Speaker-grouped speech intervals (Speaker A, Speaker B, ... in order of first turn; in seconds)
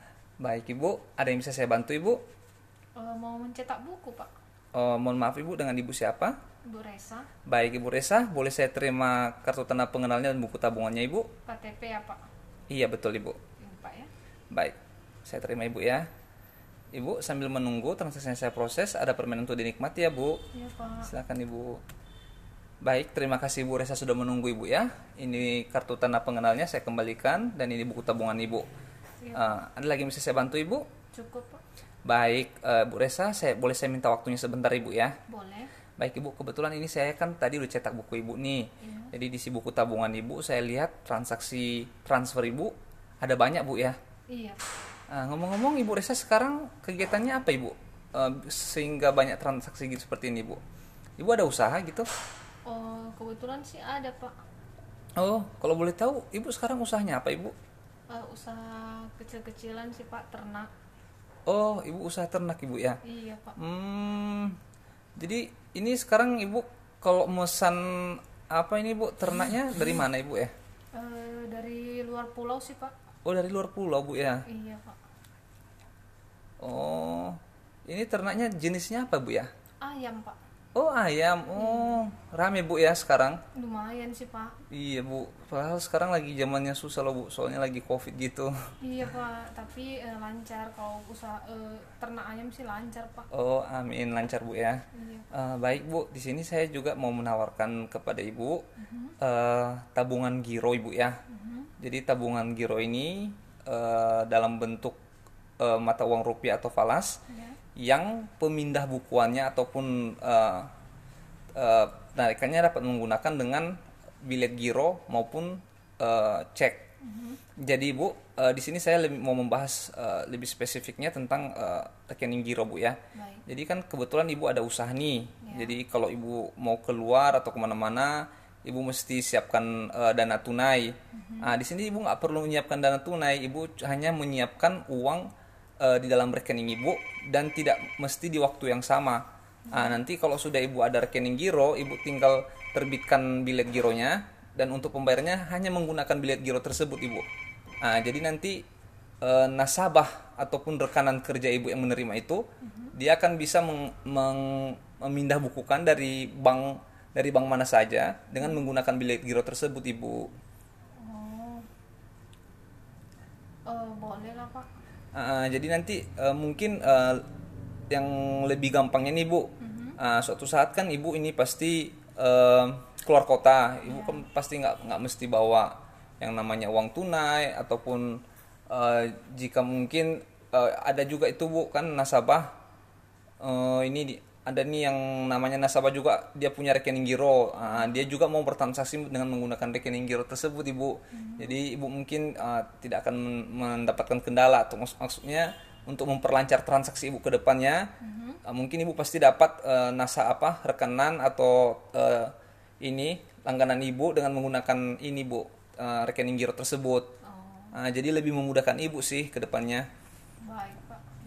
Speaker A: 0.4-2.2, 4.7-6.4, 7.5-11.3, 12.7-13.4, 14.5-16.1, 16.9-20.4, 21.1-21.8, 22.8-28.7, 29.3-30.9, 32.0-35.2, 36.0-44.0, 45.1-50.6, 51.2-52.1, 55.2-57.5, 61.5-63.0, 63.6-64.6, 65.2-70.5, 73.2-74.5, 76.6-79.5, 80.8-83.4, 84.7-88.5, 93.3-98.7, 99.2-101.2, 101.8-105.0, 105.6-107.2, 107.8-110.7, 111.5-116.9, 117.6-135.3, 135.8-147.2, 147.8-148.6, 149.2-160.3, 165.2-167.2, 167.9-182.5, 183.4-197.9, 198.4-207.1, 207.7-209.9
Speaker B: 3.0-4.3, 6.7-7.3, 11.5-12.2, 13.6-14.1, 20.5-21.1, 29.2-29.6, 31.1-31.6, 35.3-35.7, 38.8-39.1, 44.3-44.6, 52.7-54.4, 58.1-60.7, 63.0-63.6, 70.9-72.9, 74.5-75.0, 79.8-80.4, 81.6-82.0, 83.5-84.6, 88.8-93.3, 94.9-95.3, 98.8-99.2, 101.3-101.7, 107.3-107.6, 117.0-117.4, 123.2-123.5, 125.4-125.8, 131.1-131.6, 139.7-140.0, 152.6-152.9, 161.0-161.7, 163.7-164.7, 169.6-170.0, 173.9-174.2, 191.1-191.6, 198.0-198.4, 207.2-207.7, 210.4-211.0